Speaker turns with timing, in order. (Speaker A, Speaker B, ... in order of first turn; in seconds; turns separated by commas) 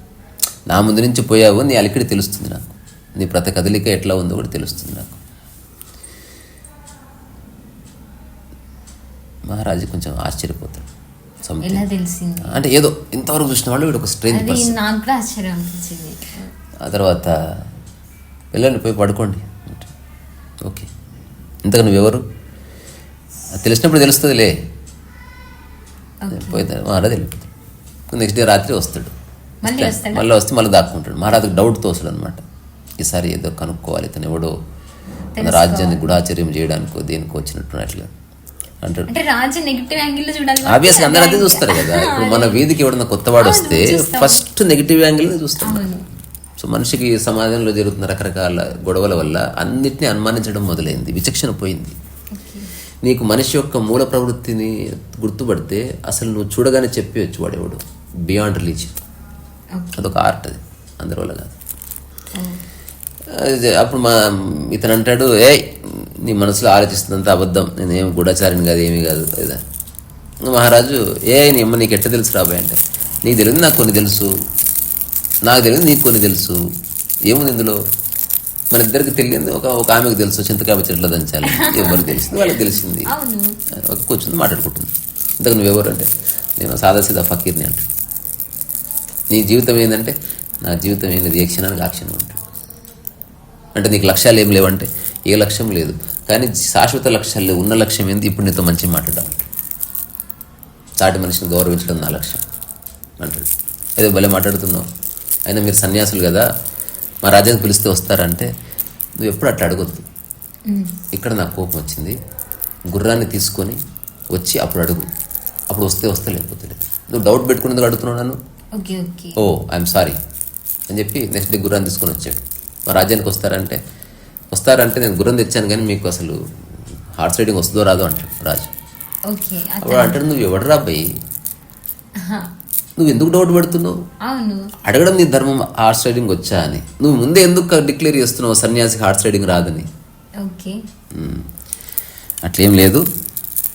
Speaker A: 0.7-5.2, Speaker A: 9.5-10.9, Speaker A: 11.4-11.8, Speaker B: 11.6-12.6, Speaker A: 12.4-14.8, Speaker B: 14.3-16.5, Speaker A: 16.8-17.3, Speaker A: 18.5-19.9, Speaker A: 20.6-20.9, Speaker A: 21.6-22.2, Speaker A: 23.5-24.5, Speaker B: 26.2-26.7, Speaker A: 26.3-27.5, Speaker A: 28.1-29.1, Speaker B: 29.6-30.2, Speaker A: 29.6-32.4, Speaker A: 33.0-34.5, Speaker B: 35.4-36.1, Speaker A: 35.4-38.1, Speaker A: 38.8-39.1, Speaker B: 39.1-42.6, Speaker A: 40.6-45.8, Speaker B: 43.4-44.4, Speaker B: 45.6-46.0, Speaker A: 46.6-51.9, Speaker B: 52.3-52.7, Speaker A: 53.0-58.9, Speaker B: 59.8-60.1, Speaker A: 60.0-61.5, Speaker B: 62.3-62.6, Speaker A: 63.3-69.6, Speaker A: 70.4-74.3, Speaker A: 75.5-76.6, Speaker A: 77.3-77.8, Speaker A: 78.7-83.1, Speaker B: 81.5-83.5, Speaker A: 83.8-87.9, Speaker A: 89.3-92.4, Speaker A: 93.8-99.5, Speaker A: 101.0-102.4, Speaker A: 103.2-104.8, Speaker A: 105.5-106.5, Speaker A: 107.2-108.5, Speaker A: 109.2-110.0, Speaker B: 110.7-111.0, Speaker A: 111.1-112.2, Speaker A: 112.9-113.8, Speaker A: 114.3-115.0, Speaker A: 115.7-118.4, Speaker B: 118.8-119.4, Speaker A: 119.4-120.2, Speaker A: 120.9-123.8, Speaker A: 124.5-126.4, Speaker A: 127.2-128.7, Speaker B: 129.3-130.2, Speaker A: 129.8-131.1, Speaker B: 132.2-132.5, Speaker A: 133.0-133.9, Speaker B: 134.3-134.7, Speaker A: 134.8-139.9, Speaker B: 140.4-140.8, Speaker A: 141.1-141.5, Speaker A: 142.4-143.0